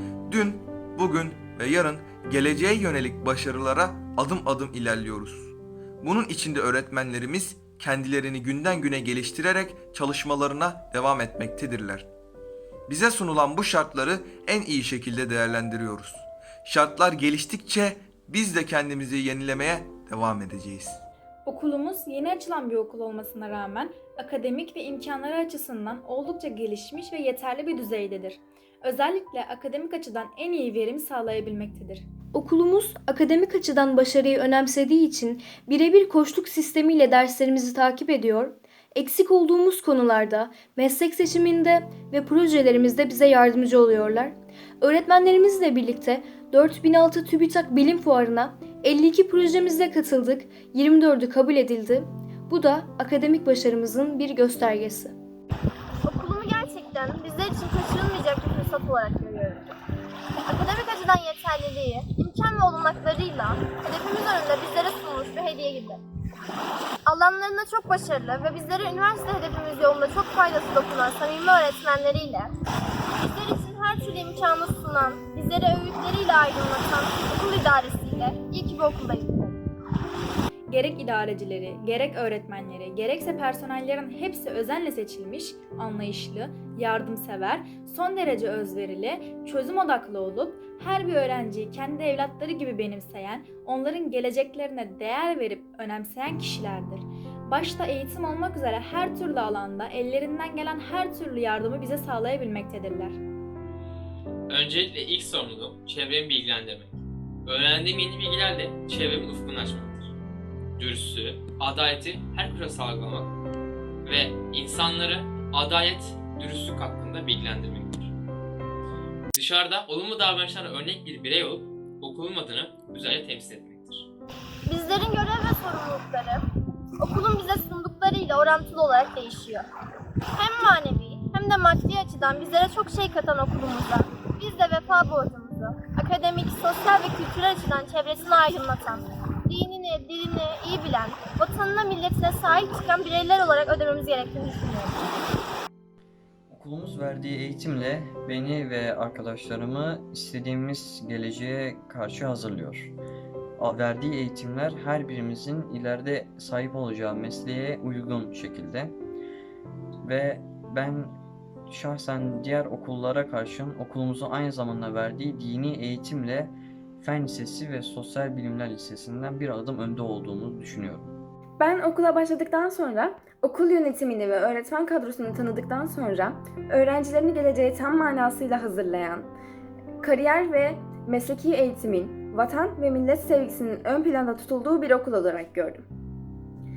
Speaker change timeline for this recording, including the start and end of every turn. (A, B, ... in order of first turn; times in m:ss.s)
0:00.3-0:12.1 A
0:12.9-0:21.0 A
0:21.4-0:32.0 B
0:32.3-0:55.2 C
0:56.0-0:59.8 D
1:00.5-1:06.0 D
1:07.1-1:12.5 D
1:13.2-1:19.6 D
1:20.7-1:43.2 B
1:44.5-1:46.9 E
1:47.5-1:50.0 E
1:50.8-1:53.3 E
1:54.1-1:58.0 E
1:59.4-2:04.0 E
2:04.7-2:06.4 D
2:07.0-2:09.7 D
2:10.3-2:25.1 D
2:26.5-2:32.9 F
2:33.6-2:39.0 F
2:40.0-2:41.1 F
2:41.7-2:51.1 F
2:51.6-2:59.3 G
3:00.0-3:05.8 G